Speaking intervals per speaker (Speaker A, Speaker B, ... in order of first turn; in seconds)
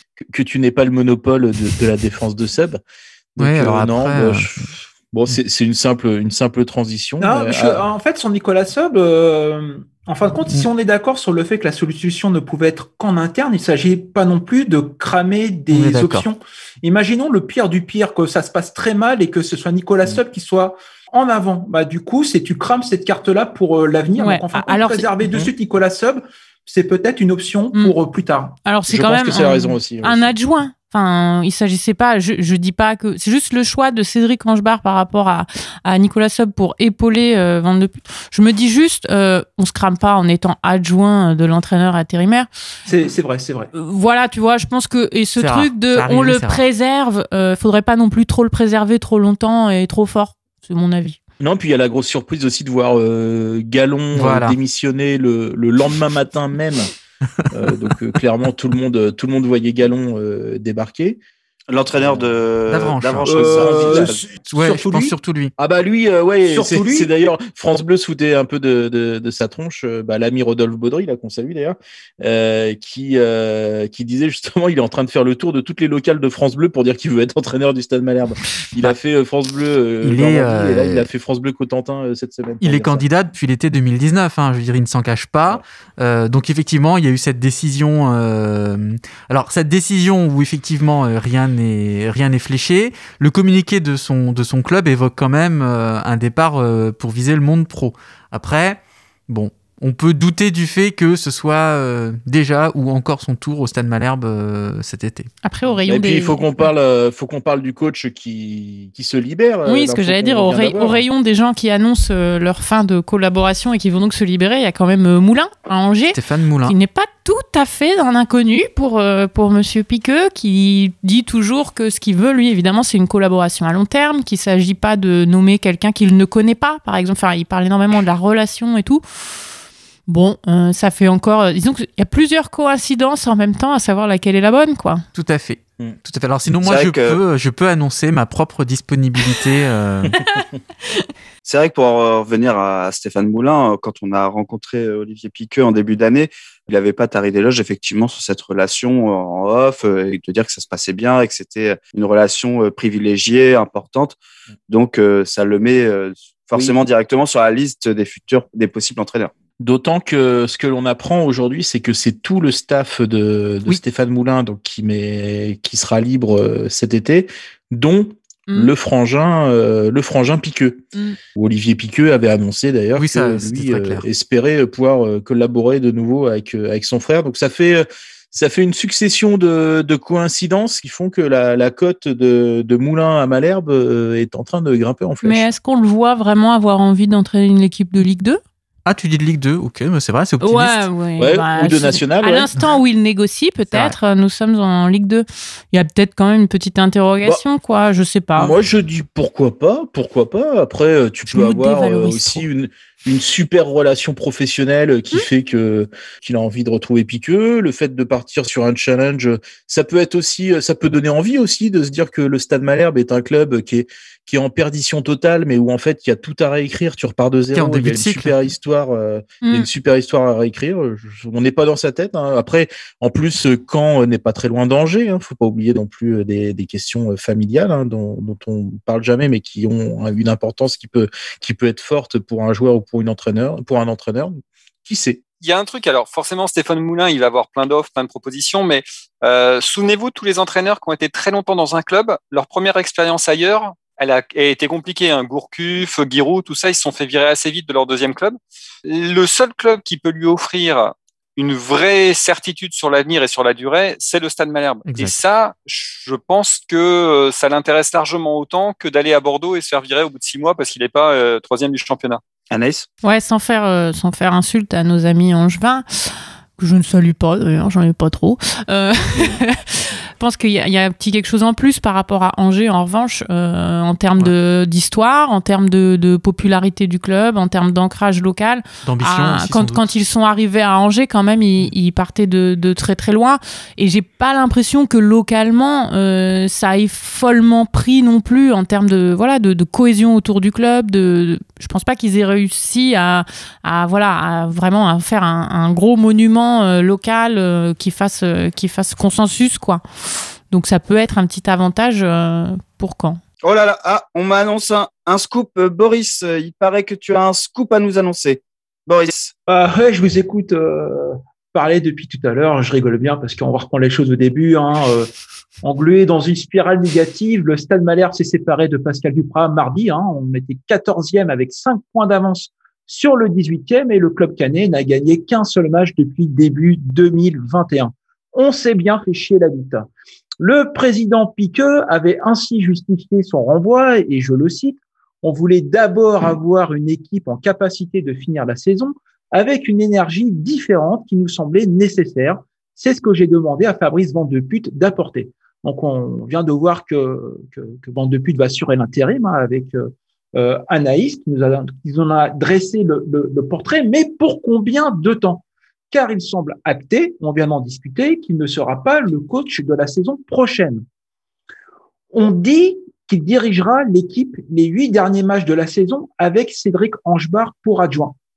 Speaker A: 0.2-2.8, 3.3-7.8, 28.9-30.3, 51.4-56.9, 57.5-61.2, 63.5-64.2, 65.6-83.0, 105.9-111.0, 159.6-185.4, 191.2-192.5, 198.4-235.2
Speaker B: 3.4-4.5, 15.7-16.3, 45.4-46.6, 54.1-54.5, 62.7-63.5, 64.5-65.5, 80.0-81.1, 82.6-105.3, 116.1-116.8, 135.1-140.2, 172.9-174.1, 188.9-190.9, 217.5-218.4, 254.9-255.2, 278.8-279.9
Speaker C: 7.2-28.6, 42.9-43.7, 63.3-65.1, 66.5-67.1, 309.4-315.1, 315.6-329.9, 330.4-360.8, 362.1-368.1
Speaker D: 24.1-25.1, 28.6-42.5, 43.7-51.2, 105.4-106.4, 109.7-129.0, 130.1-135.1, 185.2-188.4, 190.4-198.5, 201.3-202.4, 219.4-219.7, 263.0-299.8, 300.5-303.2
Speaker E: 61.7-64.2, 136.6-137.2, 141.4-154.2, 154.7-159.3, 262.5-262.9, 303.4-309.3
Speaker F: 235.4-262.2